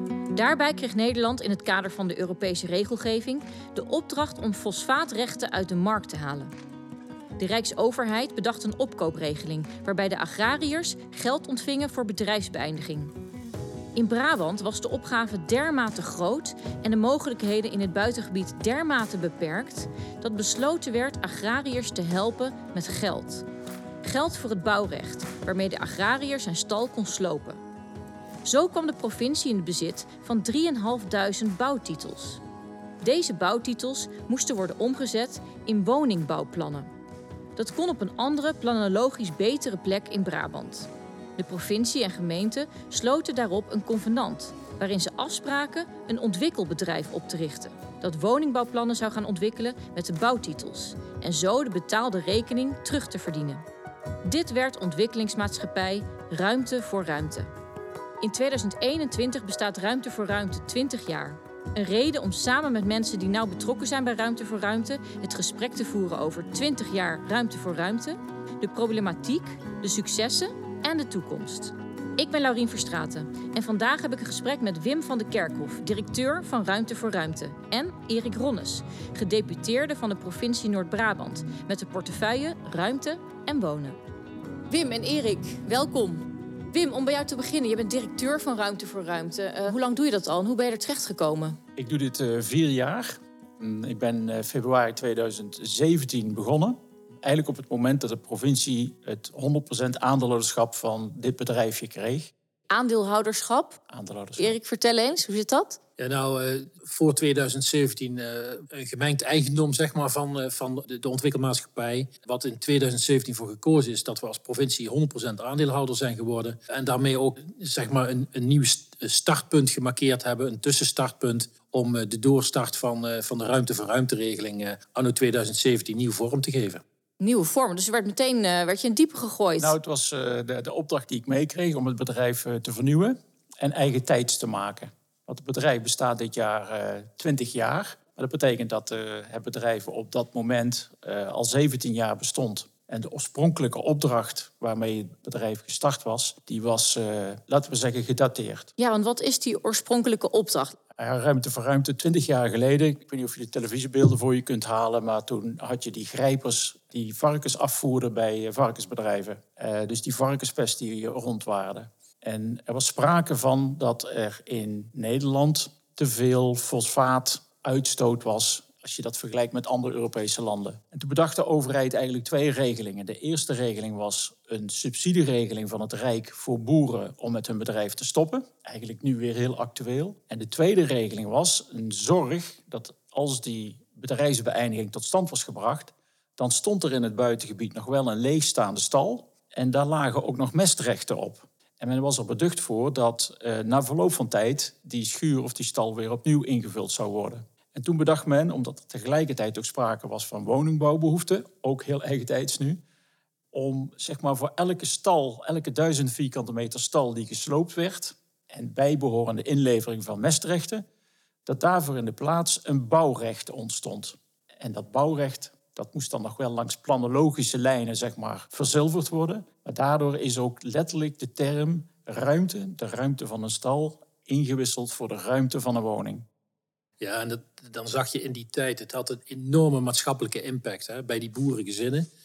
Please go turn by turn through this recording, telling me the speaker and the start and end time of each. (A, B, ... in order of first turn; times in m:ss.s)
0:00.3-0:06.5 A
0:07.4-0:13.1 A
0:14.0-0:23.4 A
0:24.0-0:27.6 A
0:28.4-0:32.4 A
0:33.0-0:36.9 A
0:37.6-0:53.6 A
0:54.2-0:57.5 A
0:58.2-1:24.0 A
1:24.7-1:31.6 A
1:31.8-1:42.3 B
1:42.7-1:43.8 A
1:43.9-1:44.6 B
1:44.4-1:45.8 A
1:46.0-2:06.8 C
2:07.2-2:09.7 A
2:09.6-2:28.7 B
2:28.8-2:30.8 A
2:31.0-3:22.8 B
3:23.5-3:30.8 B
3:31.5-3:46.3 B
3:47.0-3:52.1 C